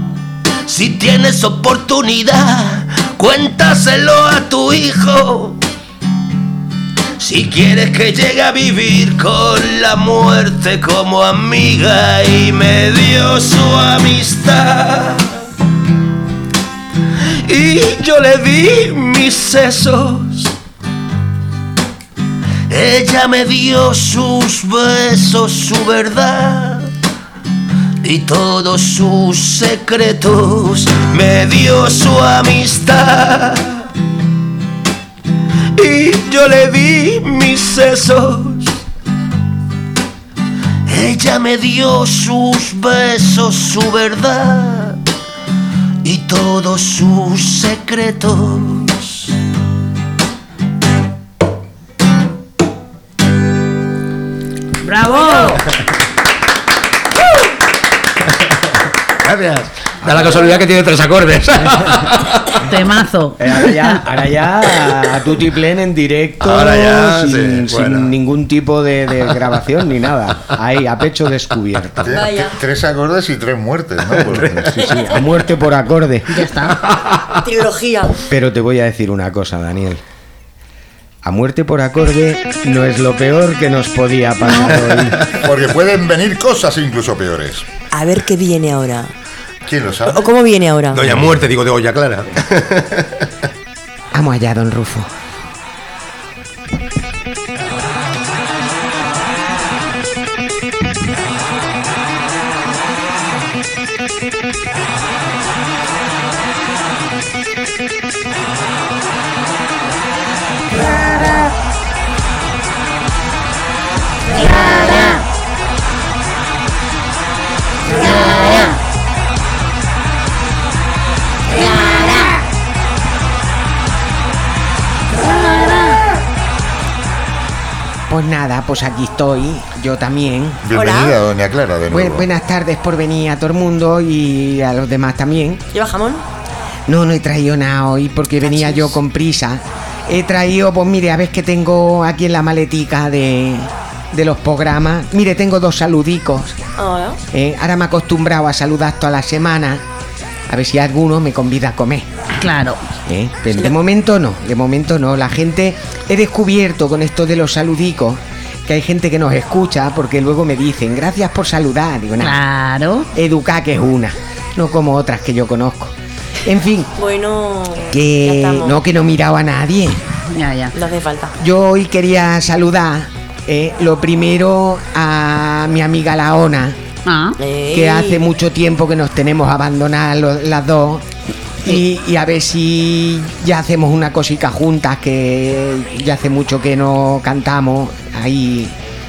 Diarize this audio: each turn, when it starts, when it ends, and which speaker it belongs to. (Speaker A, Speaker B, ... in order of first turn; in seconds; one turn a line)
Speaker A: 0.7-5.6
Speaker A: 7.2-15.2
Speaker A: 17.4-20.5
Speaker A: 22.7-26.9
Speaker A: 28.0-33.6
Speaker A: 35.8-38.7
Speaker A: 40.9-45.0
Speaker A: 46.0-49.2
Speaker B: 54.8-55.6
Speaker C: 59.2-62.5
Speaker B: 62.6-64.0
Speaker D: 63.4-72.1
Speaker C: 66.4-68.1
Speaker E: 72.0-74.8
Speaker F: 72.1-72.6
Speaker C: 74.2-75.1
Speaker D: 74.7-76.3
Speaker B: 76.3-76.8
Speaker C: 76.9-77.3
Speaker F: 77.4-78.2
Speaker D: 78.3-80.0
Speaker D: 81.2-85.2
Speaker B: 84.4-84.9
Speaker E: 85.3-87.7
Speaker F: 87.9-89.1
Speaker E: 89.7-90.3
Speaker F: 90.1-91.0
Speaker C: 90.9-93.2
Speaker D: 94.2-95.1
Speaker D: 128.1-130.6
Speaker E: 130.6-132.3
Speaker F: 130.8-131.2
Speaker D: 131.9-135.6
Speaker F: 135.7-136.2
Speaker D: 136.9-146.6
Speaker F: 138.5-138.9
Speaker F: 146.8-147.2
Speaker D: 147.3-149.8
Speaker D: 150.5-152.1
Speaker B: 152.4-152.8
Speaker D: 153.1-162.4
Speaker B: 162.2-163.1
Speaker D: 163.2-165.9
Speaker D: 166.5-166.9
Speaker F: 167.0-168.8
Speaker D: 167.9-170.0
Speaker B: 170.3-170.7
Speaker F: 170.7-171.3
Speaker D: 171.4-176.8
Speaker B: 177.1-177.4
Speaker F: 177.4-178.2
Speaker D: 177.7-181.0
Speaker D: 181.6-188.7